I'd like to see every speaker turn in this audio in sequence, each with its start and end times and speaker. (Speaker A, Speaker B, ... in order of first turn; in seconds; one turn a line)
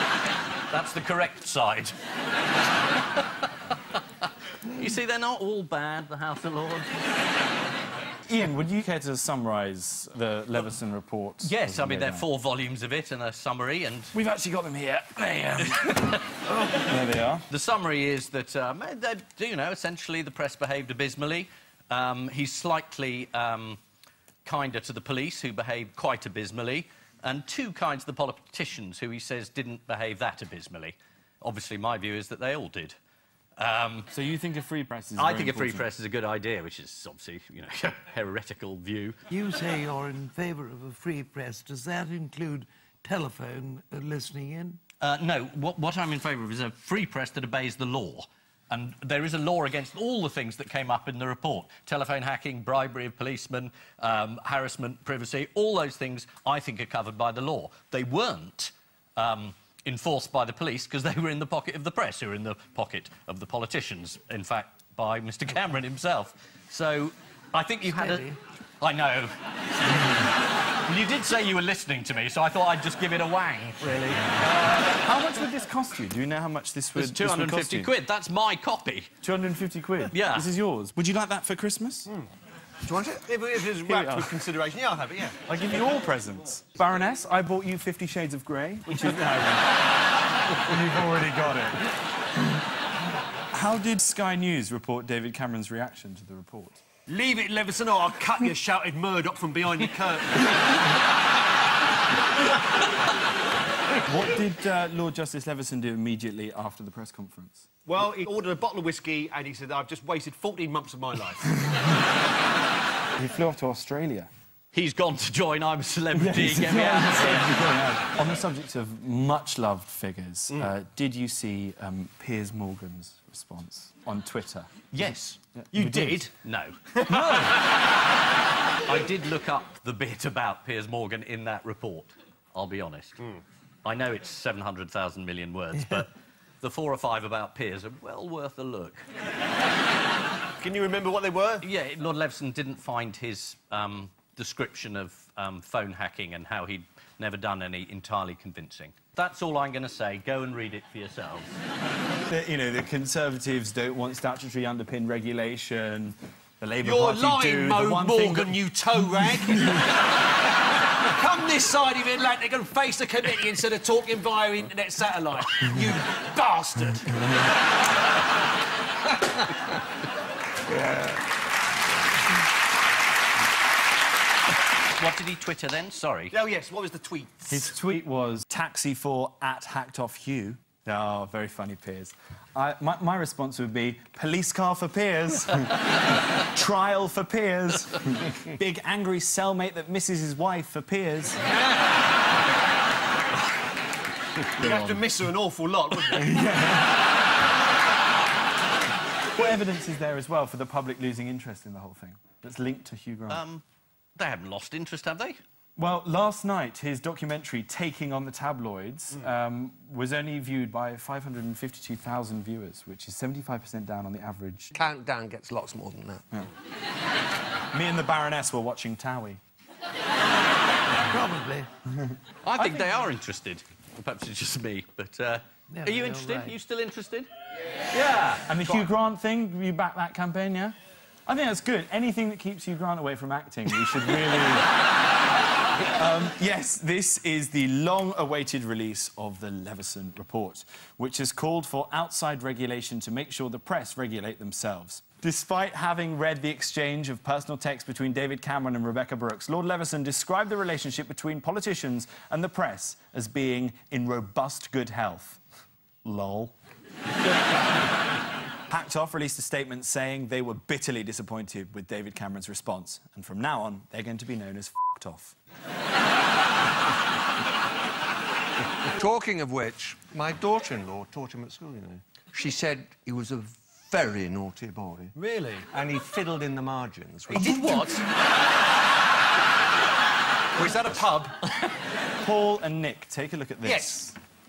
Speaker A: 0.7-1.9
Speaker A: 4.7-6.9
Speaker B: 8.3-12.3
Speaker A: 11.4-14.1
Speaker B: 14.1-16.2
Speaker A: 15.8-16.2
Speaker B: 16.9-17.5
Speaker A: 17.5-23.8
Speaker A: 24.4-33.0
Speaker A: 33.6-34.1
Speaker B: 34.1-35.9
Speaker A: 35.2-39.2
Speaker C: 39.3-44.8
Speaker A: 45.0-68.3
Speaker C: 67.9-68.4
Speaker A: 68.8-70.3
Speaker A: 70.8-74.2
Speaker B: 74.5-77.9
Speaker A: 77.0-79.1
Speaker B: 79.2-82.1
Speaker A: 80.1-80.5
Speaker D: 82.9-83.2
Speaker E: 83.2-85.4
Speaker B: 83.8-84.4
Speaker B: 85.5-89.8
Speaker B: 90.5-91.9
Speaker B: 93.5-96.8
Speaker E: 97.1-100.5
Speaker B: 104.0-107.7
Speaker E: 107.9-111.5
Speaker B: 111.6-111.9
Speaker B: 113.2-114.3
Speaker A: 114.7-117.6
Speaker B: 116.1-124.8
Speaker A: 124.9-125.4
Speaker B: 125.6-126.3
Speaker E: 125.7-126.3
Speaker A: 126.4-127.5
Speaker E: 126.9-127.6
Speaker A: 128.9-139.1
Speaker E: 140.6-141.7
Speaker A: 141.6-151.5
Speaker B: 152.3-158.6
Speaker E: 156.8-159.9
Speaker E: 161.1-167.1
Speaker D: 170.7-171.2
Speaker A: 175.0-176.4
Speaker E: 176.3-177.7
Speaker B: 177.5-191.4
Speaker E: 194.6-196.4
Speaker B: 194.6-195.1
Speaker B: 196.1-197.0
Speaker B: 199.3-203.4
Speaker A: 203.3-203.6
Speaker A: 204.2-205.4
Speaker B: 205.8-214.7
Speaker D: 214.7-216.3
Speaker B: 217.7-219.4
Speaker C: 221.0-221.7
Speaker A: 222.4-227.3
Speaker C: 225.7-226.6
Speaker A: 227.9-228.9
Speaker B: 228.4-234.7
Speaker B: 235.9-255.4
Speaker B: 256.0-256.6
Speaker B: 258.7-265.4
Speaker D: 268.9-275.2
Speaker E: 275.1-275.7
Speaker D: 275.7-277.9
Speaker A: 277.3-278.1
Speaker E: 280.6-281.4
Speaker B: 282.2-284.2
Speaker E: 283.6-284.0